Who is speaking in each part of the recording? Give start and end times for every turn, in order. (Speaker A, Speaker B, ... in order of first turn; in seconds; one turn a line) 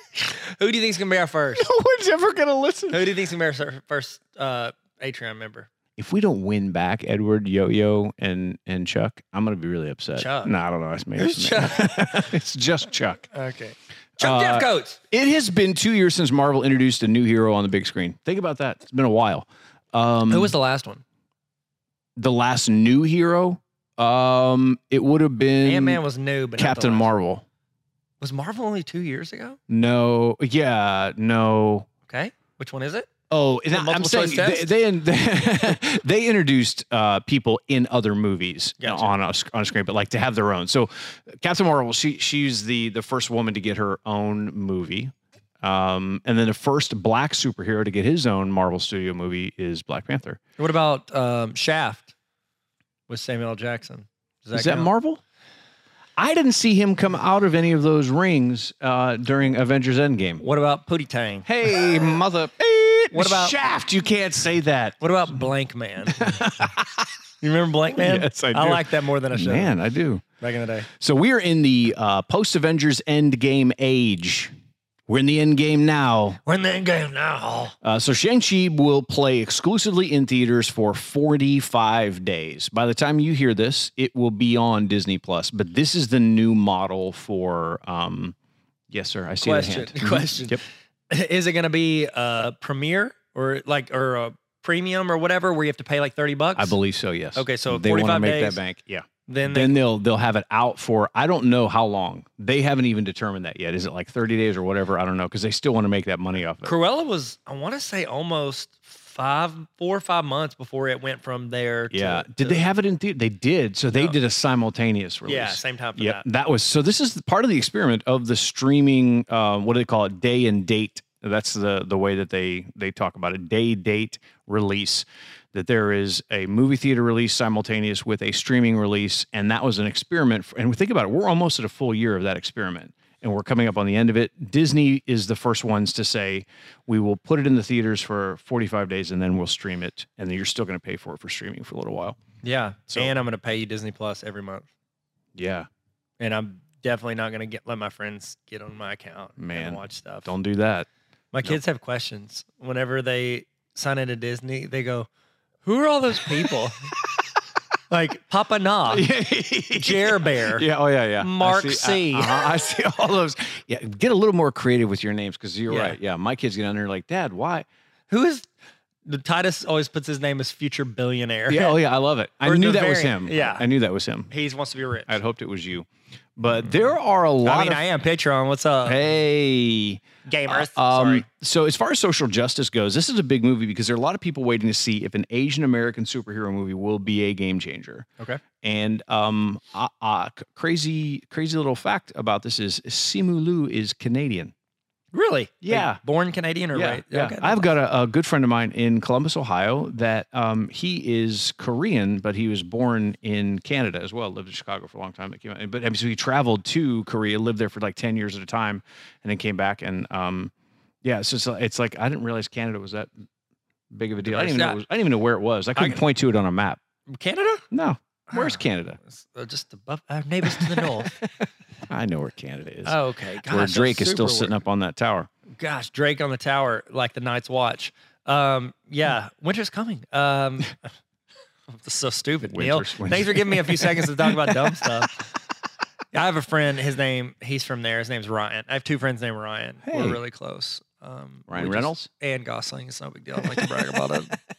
Speaker A: 0.2-1.6
Speaker B: 1.6-3.0
Speaker A: 2.9-5.7
Speaker B: 6.0-13.2
Speaker A: 10.2-10.5
Speaker A: 11.2-12.2
Speaker A: 13.3-15.0
Speaker B: 14.2-20.5
Speaker A: 20.3-21.0
Speaker B: 22.2-26.0
Speaker A: 25.6-27.1
Speaker B: 26.6-27.4
Speaker A: 28.2-29.6
Speaker B: 29.7-31.9
Speaker A: 32.1-33.1
Speaker B: 33.3-50.4
Speaker A: 33.7-34.7
Speaker A: 38.8-39.1
Speaker A: 50.6-52.1
Speaker A: 53.1-54.9
Speaker B: 54.5-55.2
Speaker B: 56.2-60.4
Speaker A: 60.4-61.5
Speaker B: 61.5-65.3
Speaker A: 63.1-63.5
Speaker A: 65.0-66.4
Speaker B: 66.1-67.1
Speaker A: 67.4-69.8
Speaker B: 68.0-70.2
Speaker A: 70.4-70.9
Speaker B: 70.9-74.5
Speaker B: 75.1-76.4
Speaker A: 76.5-77.8
Speaker B: 77.8-88.4
Speaker B: 88.9-90.6
Speaker A: 89.4-96.8
Speaker B: 96.6-106.7
Speaker A: 97.3-98.6
Speaker A: 99.3-99.8
Speaker A: 106.6-112.6
Speaker B: 111.9-142.2
Speaker A: 115.3-116.2
Speaker A: 142.4-144.7
Speaker B: 145.3-145.7
Speaker A: 146.2-150.3
Speaker B: 149.4-150.9
Speaker A: 151.3-155.1
Speaker A: 155.6-156.9
Speaker A: 157.9-159.1
Speaker B: 158.9-167.7
Speaker A: 159.7-160.7
Speaker A: 161.2-162.4
Speaker A: 165.7-166.0
Speaker A: 168.1-168.5
Speaker A: 169.1-171.8
Speaker B: 171.5-174.3
Speaker A: 172.4-173.7
Speaker A: 174.3-175.2
Speaker B: 175.1-177.8
Speaker A: 177.4-179.0
Speaker B: 178.8-188.1
Speaker A: 180.3-181.2
Speaker B: 188.6-194.5
Speaker A: 195.1-197.7
Speaker B: 195.6-196.0
Speaker B: 196.7-210.5
Speaker B: 211.0-213.1
Speaker B: 213.9-216.8
Speaker A: 214.2-214.8
Speaker A: 217.1-217.7
Speaker B: 217.7-219.0
Speaker A: 218.3-221.2
Speaker B: 220.5-221.3
Speaker B: 221.9-225.3
Speaker A: 222.8-224.6
Speaker A: 225.6-230.9
Speaker A: 231.7-235.2
Speaker B: 232.5-234.9
Speaker A: 236.1-244.4
Speaker B: 239.8-240.2
Speaker B: 241.5-242.1